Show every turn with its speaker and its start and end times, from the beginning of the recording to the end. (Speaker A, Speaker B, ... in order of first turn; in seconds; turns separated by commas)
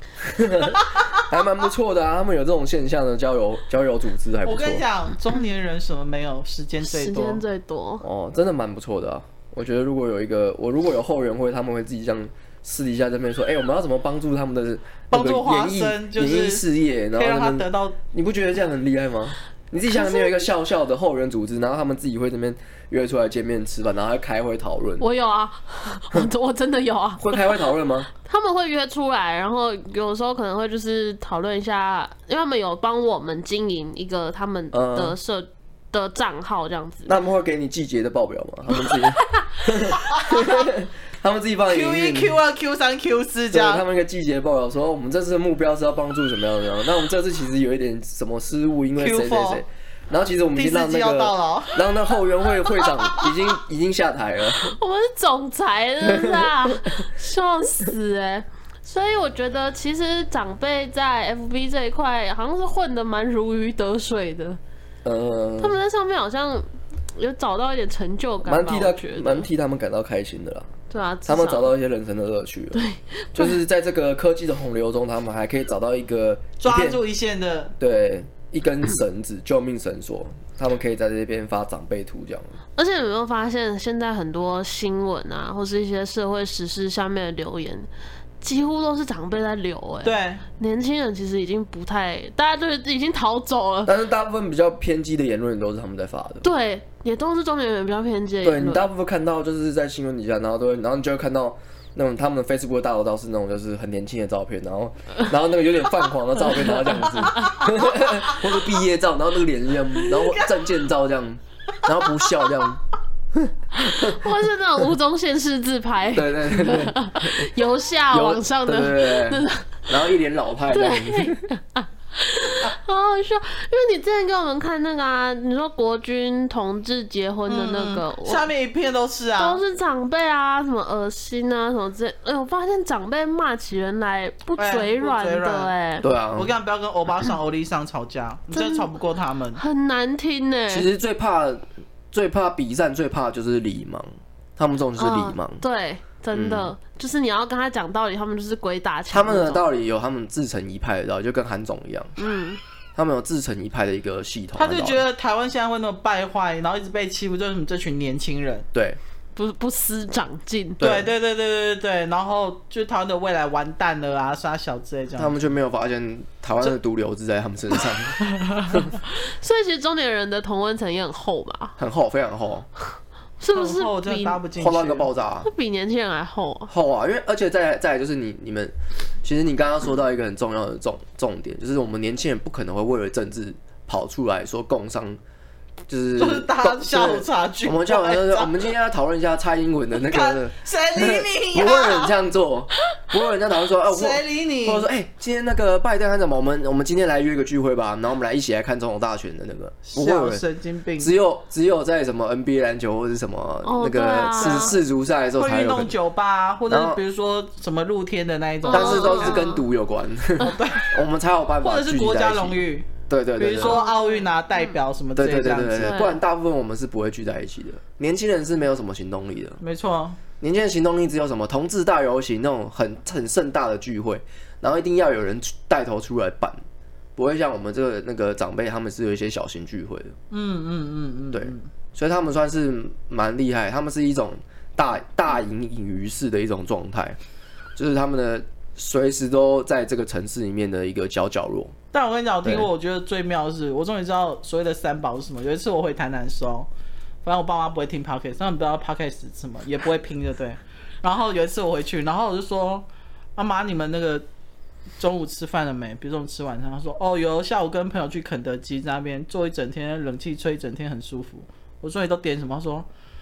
Speaker A: 0.2-4.8, Speaker B: 4.4-7.4, Speaker C: 6.8-8.0, Speaker A: 8.0-25.0, Speaker B: 15.1-16.6, Speaker B: 17.1-18.0, Speaker C: 19.9-20.4, Speaker C: 25.0-27.4, Speaker A: 27.2-28.1, Speaker C: 28.2-37.1, Speaker A: 34.7-35.1, Speaker A: 37.0-42.4, Speaker B: 41.7-43.8, Speaker A: 43.5-54.8, Speaker B: 49.0-49.6, Speaker B: 50.5-51.9, Speaker B: 52.8-53.3, Speaker C: 54.6-64.6, Speaker A: 56.0-57.0, Speaker A: 65.0-65.8, Speaker C: 65.6-69.5, Speaker A: 68.4-70.7, Speaker C: 70.9-71.7, Speaker A: 71.2-72.8, Speaker C: 72.7-73.6, Speaker A: 73.3-77.0, Speaker B: 76.6-77.7, Speaker A: 77.8-82.5, Speaker C: 82.8-87.9, Speaker C: 88.4-93.9, Speaker B: 90.0-90.4, Speaker A: 93.8-96.5, Speaker C: 96.4-98.9, Speaker A: 98.4-112.8, Speaker C: 106.6-107.6, Speaker A: 113.3-114.2, Speaker C: 113.8-119.9, Speaker A: 116.1-117.5, Speaker A: 118.1-121.4, Speaker C: 120.7-128.5, Speaker B: 127.5-129.6, Speaker C: 129.4-136.1, Speaker B: 134.6-135.7, Speaker A: 136.0-136.5, Speaker B: 136.3-139.6, Speaker C: 138.5-138.9, Speaker C: 139.6-140.9, Speaker A: 140.7-145.6, Speaker C: 145.0-149.6, Speaker A: 146.3-146.7, Speaker A: 149.1-152.1, Speaker C: 152.2-152.6, Speaker A: 152.9-155.0, Speaker B: 154.6-158.7, Speaker A: 158.7-159.0, Speaker C: 159.3-160.8, Speaker A: 160.8-161.1, Speaker B: 160.8-165.4, Speaker A: 165.2-168.9, Speaker B: 168.3-168.8, Speaker C: 169.0-171.8, Speaker A: 171.8-172.7, Speaker C: 173.4-174.4, Speaker B: 173.5-175.1, Speaker A: 174.6-175.5, Speaker C: 175.4-176.7, Speaker A: 176.7-185.2, Speaker A: 185.9-200.4, Speaker B: 186.2-188.6, Speaker B: 189.9-192.1, Speaker B: 193.9-194.9, Speaker B: 199.8-201.1, Speaker A: 201.0-205.9, Speaker C: 203.6-204.8, Speaker B: 204.4-204.7, Speaker B: 205.3-209.4, Speaker A: 206.7-207.0, Speaker C: 208.7-209.6, Speaker A: 208.7-213.8, Speaker B: 210.4-210.9, Speaker B: 211.6-216.0, Speaker C: 213.6-214.7, Speaker A: 215.2-219.6, Speaker C: 215.8-216.2, Speaker B: 219.6-220.2, Speaker A: 220.4-226.6, Speaker A: 227.2-230.1, Speaker B: 230.3-231.7, Speaker A: 231.3-237.2, Speaker A: 237.8-241.7, Speaker B: 241.9-246.7, Speaker A: 242.4-242.7, Speaker B: 247.2-254.2, Speaker B: 255.0-262.9